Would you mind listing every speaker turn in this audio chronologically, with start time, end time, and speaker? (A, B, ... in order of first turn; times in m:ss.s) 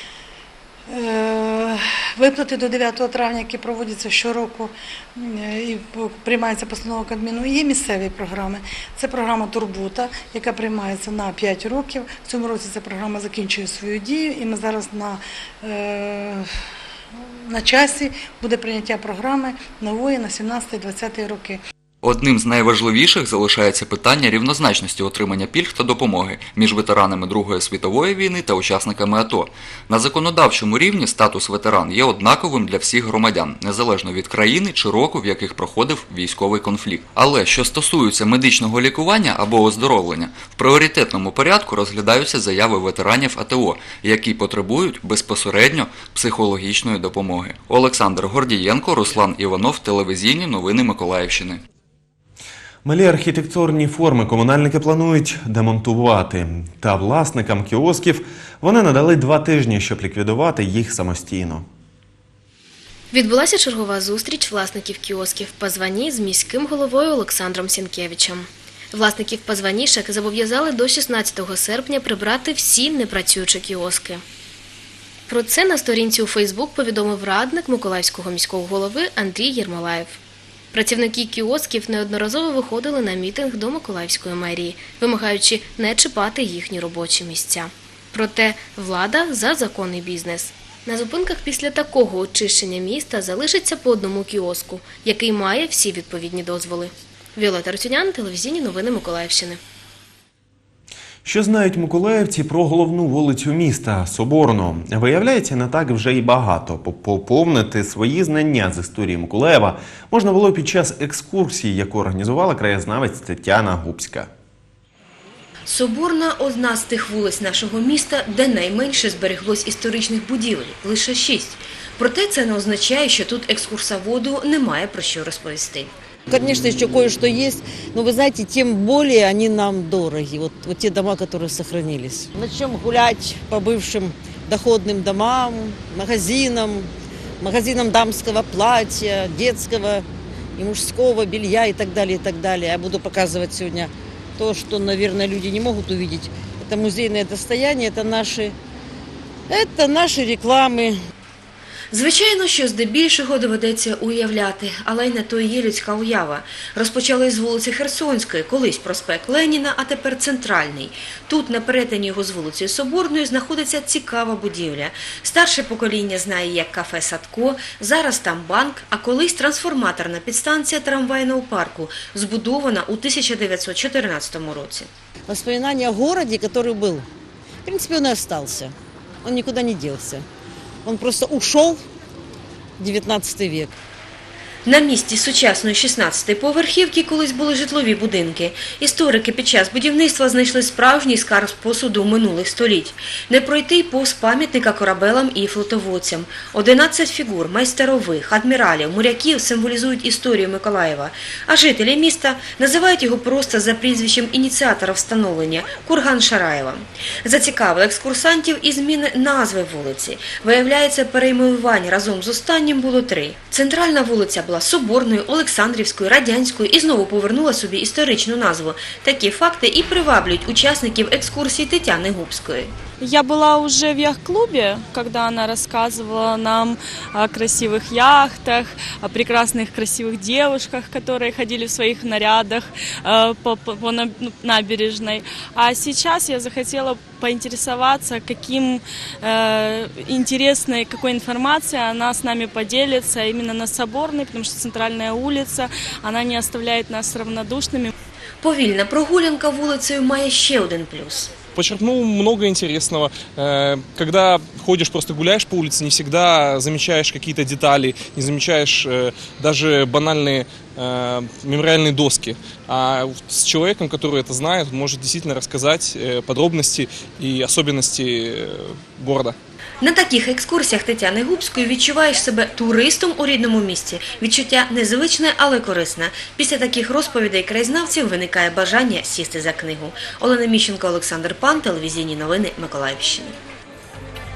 0:00.9-0:16.4 A
0:17.5-0:21.6 A
0:22.0-0:51.6 B
0:52.8-1:01.6 C
1:03.1-1:14.2 D
1:15.3-1:20.2 D
1:20.7-1:39.6 D
1:41.2-1:54.3 C
1:55.7-2:05.9 E
2:06.3-2:28.5 F
2:29.5-2:31.0 F
2:31.9-2:54.9 E
2:55.3-2:57.1 F
2:57.6-3:00.2 F
3:00.8-3:01.8 F
3:02.8-3:03.7 F
3:04.6-3:42.7 E
3:43.0-4:07.9 G
4:08.4-4:11.3 E
4:11.6-4:29.4 H
4:29.8-4:43.4 E